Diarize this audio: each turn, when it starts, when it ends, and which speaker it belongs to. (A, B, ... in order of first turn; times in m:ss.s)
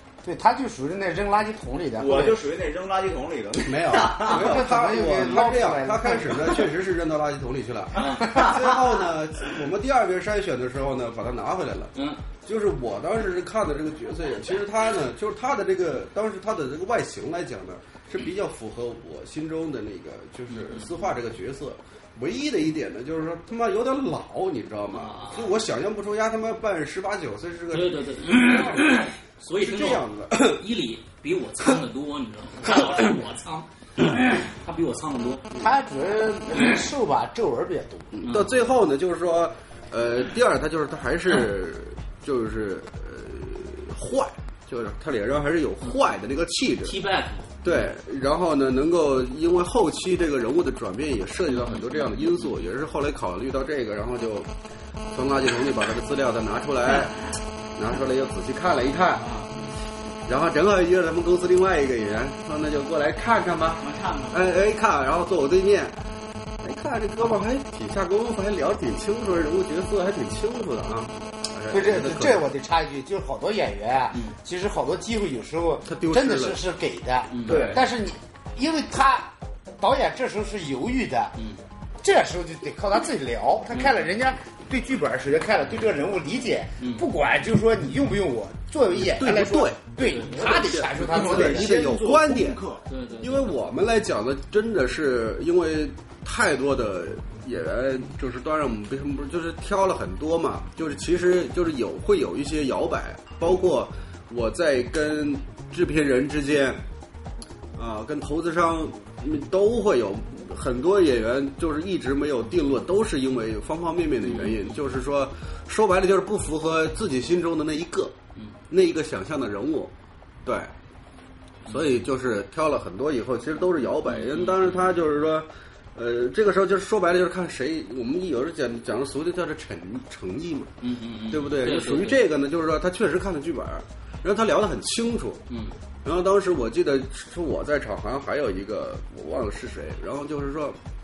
0:00.2-0:02.4 A
0:02.0-0:04.5 B
0:03.6-0:30.6 C
0:04.2-0:06.7 A
0:08.0-0:08.7 B
0:11.9-0:12.2 D
0:20.6-0:20.8 D
0:24.9-0:25.5 D
0:27.7-0:35.5 D
0:35.5-0:38.3 A
0:38.1-0:47.0 C
0:38.2-0:38.5 D
0:46.8-0:47.8 D
0:47.6-0:54.5 C
0:51.5-0:52.5 D
0:55.1-0:57.2 C
0:57.7-0:59.3 C
0:59.2-0:59.5 B
1:00.2-1:06.0 C
1:03.8-1:04.5 B
1:06.6-1:12.4 C
1:11.7-1:21.4 A
1:15.8-1:16.6 C
1:17.3-1:17.8 D
1:17.4-1:17.9 B
1:21.4-1:21.6 D
1:22.0-1:31.7 A
1:28.9-1:32.6 C
1:30.0-1:30.5 D
1:30.9-1:32.8 B
1:32.9-1:33.6 D
1:33.2-1:46.8 C
1:47.7-1:58.1 C
1:54.2-1:54.8 D
1:58.7-1:59.9 C
2:00.4-2:00.7 C
2:01.6-2:10.7 C
2:04.1-2:04.8 D
2:10.8-2:12.2 D
2:11.3-2:15.4 C
2:15.5-2:15.8 D
2:16.0-2:20.8 C